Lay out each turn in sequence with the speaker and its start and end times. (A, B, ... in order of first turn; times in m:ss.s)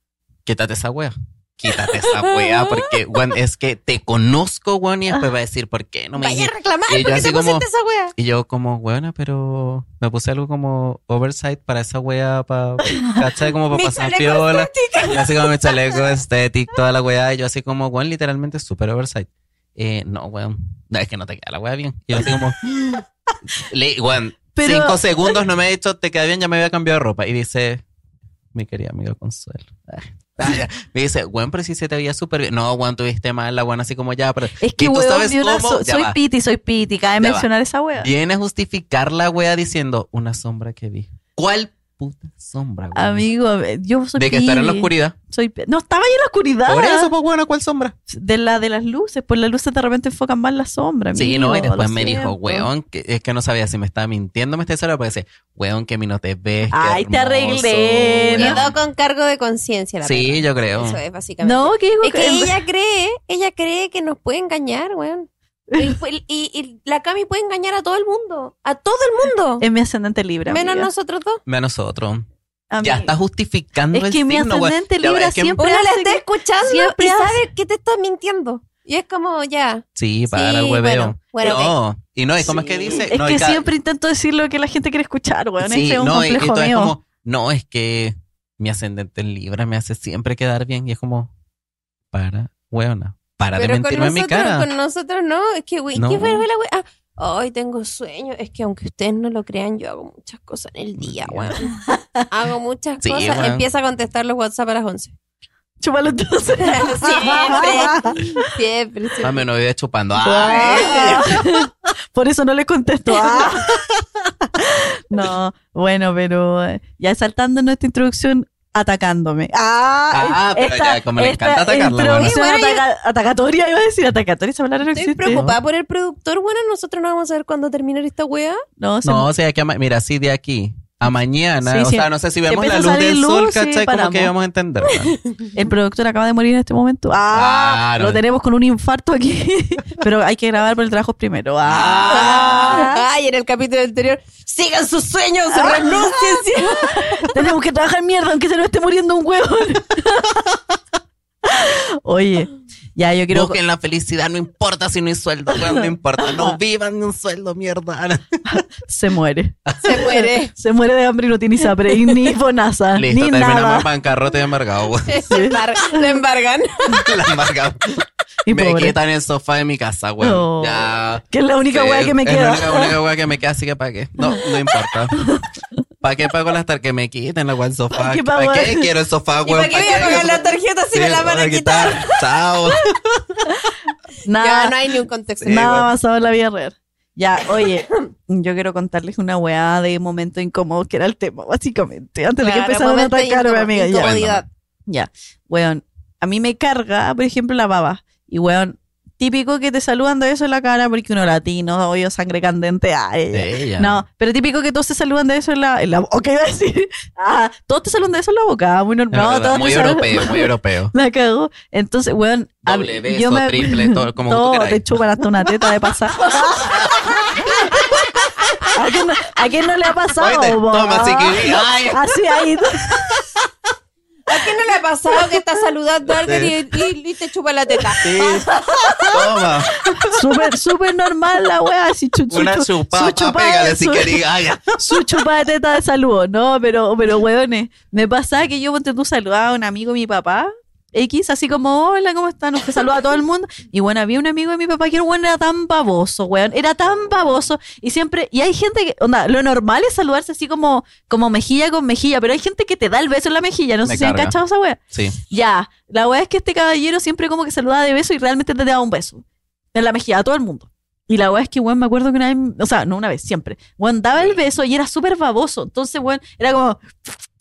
0:00.4-0:07.6 A
0:01.7-0:03.3 B
0:06.2-0:08.1 B
0:08.2-0:27.8 A
0:12.8-0:13.2 C
0:13.7-0:16.0 B
0:24.5-0:25.3 C
0:28.5-0:36.2 A
0:34.6-0:38.1 C
0:37.2-0:37.5 A
0:38.0-0:43.2 A
0:42.9-0:47.1 C
0:44.2-0:45.1 A
0:46.7-0:47.9 A
0:48.1-0:52.7 C
0:51.1-0:58.8 A
0:56.7-0:58.6 C
0:58.4-1:09.6 B
1:00.0-1:01.0 A
1:01.4-1:02.6 C
1:09.6-1:10.9 C
1:10.5-1:11.4 B
1:11.4-1:12.2 A
1:12.7-1:13.1 C
1:12.8-1:15.6 A
1:13.9-1:17.4 C
1:15.6-1:21.7 B
1:20.0-1:23.6 A
1:22.4-1:23.1 B
1:22.4-1:26.9 C
1:25.6-1:31.3 A
1:32.1-1:34.7 A
1:33.6-1:41.7 B
1:35.9-1:36.4 A
1:41.0-1:41.6 A
1:41.7-1:42.3 C
1:42.3-1:45.1 B
1:43.0-1:43.6 A
1:45.8-1:48.5 C
1:46.6-1:49.4 B
1:49.2-1:51.6 A
1:50.2-1:53.8 C
1:50.4-1:51.2 B
1:54.6-2:05.4 C
2:00.1-2:02.4 A
2:02.1-2:02.8 B
2:04.9-2:08.6 B
2:05.3-2:05.6 A
2:08.8-2:09.3 C
2:09.0-2:15.2 A
2:11.6-2:14.3 C
2:14.8-2:15.5 B
2:15.5-2:23.0 C
2:17.3-2:18.2 A
2:21.6-2:22.8 A
2:22.1-2:27.5 B
2:25.5-2:30.6 C
2:31.4-2:33.6 C
2:33.3-2:38.6 A
2:35.8-2:36.5 C
2:38.5-2:43.9 C
2:39.6-2:39.9 A
2:39.8-2:40.5 B
2:43.0-2:45.2 A
2:45.0-2:47.1 B
2:45.3-2:46.1 C
2:47.0-2:47.8 A
2:48.5-2:48.9 C
2:48.5-2:55.2 A
2:50.2-2:53.0 C
2:54.2-2:54.4 C
2:55.1-2:55.4 C
2:56.0-3:00.4 A
2:58.0-2:58.9 C
2:59.4-3:02.2 B
3:00.9-3:03.5 A
3:04.2-3:04.7 C
3:04.4-3:05.8 B
3:05.4-3:05.8 A
3:05.5-3:14.2 C
3:12.4-3:14.5 B
3:14.0-3:14.4 A
3:14.9-3:36.9 C
3:23.3-3:24.0 A
3:29.1-3:30.9 A
3:32.6-3:35.0 A
3:35.6-3:38.3 A
3:38.7-3:43.1 C
3:40.2-3:42.2 A
3:42.9-3:43.5 A
3:44.3-3:49.4 B
3:46.2-3:46.5 A
3:47.8-3:49.1 C
3:48.0-3:48.5 A
3:49.1-3:50.0 A
3:49.9-3:54.2 C
3:52.3-3:55.2 A
3:54.8-4:14.8 C
4:13.8-4:14.3 A
4:15.3-4:19.2 C
4:19.7-4:27.2 C